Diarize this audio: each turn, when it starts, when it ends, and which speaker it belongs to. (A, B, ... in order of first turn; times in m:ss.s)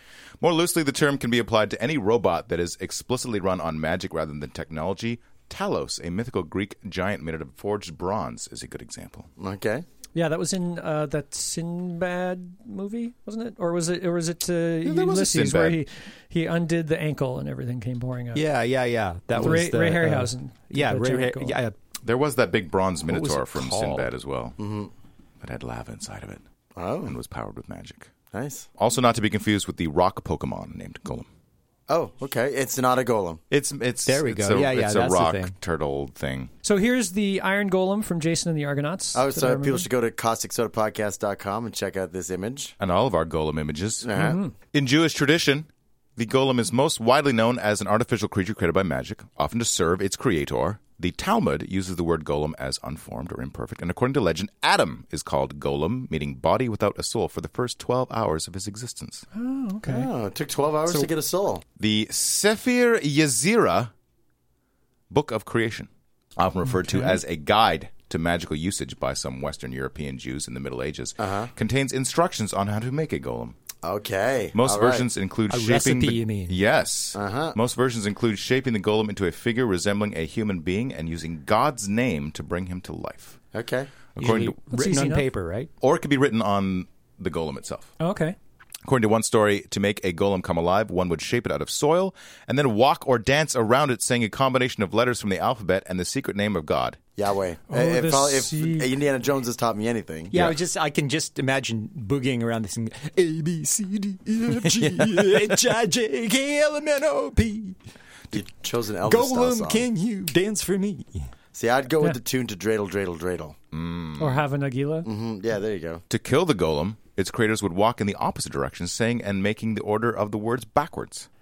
0:00.4-0:09.3 A
0:09.4-0:09.8 B
0:10.2-0:18.4 C
0:14.8-0:15.8 A
0:18.3-0:21.8 D
0:19.4-0:21.6 C
0:22.0-0:24.6 A
0:23.1-0:24.1 D
0:24.6-0:24.9 B
0:25.4-0:26.4 A
0:26.8-0:27.2 B
0:27.0-0:28.1 A
0:28.3-0:28.7 B
0:28.8-0:31.3 A
0:31.9-0:33.4 B
0:33.5-0:36.5 A
0:34.1-0:35.5 D
0:36.6-0:39.9 C
0:39.1-0:42.8 B
0:42.8-0:44.1 A
0:44.0-0:44.4 B
0:44.2-0:44.6 C
0:44.7-0:59.2 A
0:59.3-1:00.1 C
0:59.8-1:01.6 B
1:01.8-1:03.9 A
1:05.1-1:13.6 A
1:06.8-1:07.2 C
1:11.2-1:11.5 B
1:13.8-1:15.1 B
1:14.5-1:23.4 A
1:15.5-1:16.6 D
1:17.2-1:17.6 B
1:23.5-1:23.9 B
1:24.2-1:24.6 A
1:24.2-1:25.7 D
1:24.7-1:25.3 C
1:25.8-1:27.9 A
1:28.0-1:28.4 C
1:28.8-1:37.0 A
1:37.2-1:40.4 B
1:37.7-1:38.9 C
1:40.3-1:47.8 D
1:44.5-1:45.6 A
1:48.3-1:49.9 B
1:49.0-1:51.3 D
1:51.6-1:53.6 B
1:53.7-1:54.4 A
1:54.2-1:55.1 C
1:55.0-1:56.0 B
1:56.1-2:01.3 A